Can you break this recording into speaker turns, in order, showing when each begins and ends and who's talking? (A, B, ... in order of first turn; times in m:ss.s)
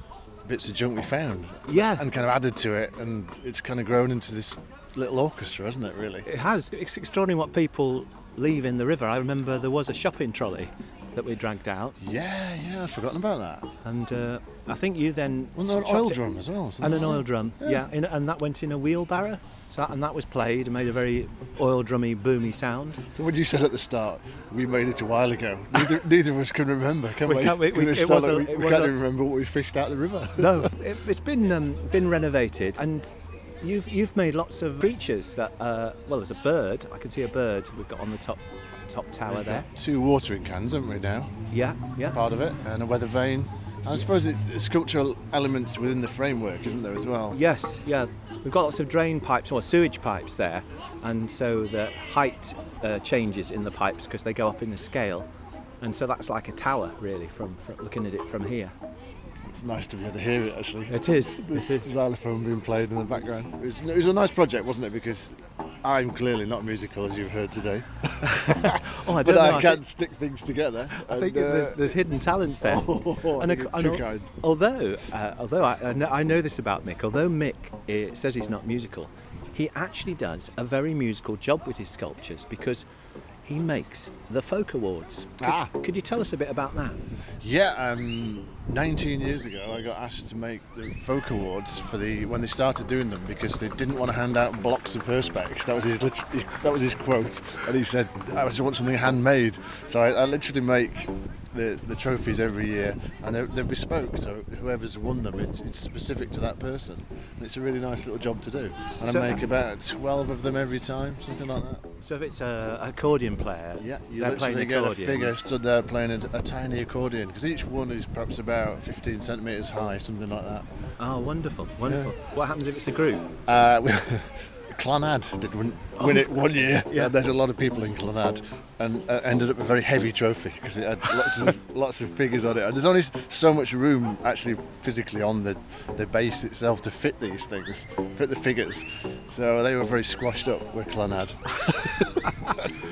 0:00.4-0:06.3 A
0:01.7-0:02.1 B
0:06.2-0:12.0 B
0:12.0-0:13.7 A
0:13.8-0:16.2 B
0:15.6-0:17.8 A
0:16.8-0:23.0 B
0:23.1-0:30.7 A
0:27.2-0:28.9 B
0:30.4-0:33.1 B
0:33.6-0:39.7 B
0:39.3-0:41.3 A
0:41.5-0:42.2 B
0:42.1-0:47.4 A
0:47.3-0:55.3 B
0:55.8-0:58.7 B
0:59.5-1:12.0 A
1:00.9-1:01.9 B
1:08.2-1:09.8 B
1:10.9-1:22.8 B
1:12.6-1:14.3 A
1:23.4-1:27.0 B
1:25.4-1:25.7 A
1:27.4-1:51.8 A
1:49.0-1:49.4 B
1:52.0-1:55.3 B
1:53.8-2:00.7 A
2:01.0-2:03.3 B
2:01.8-2:02.1 A
2:03.5-2:22.3 A
2:06.0-2:07.1 B
2:22.2-2:22.7 B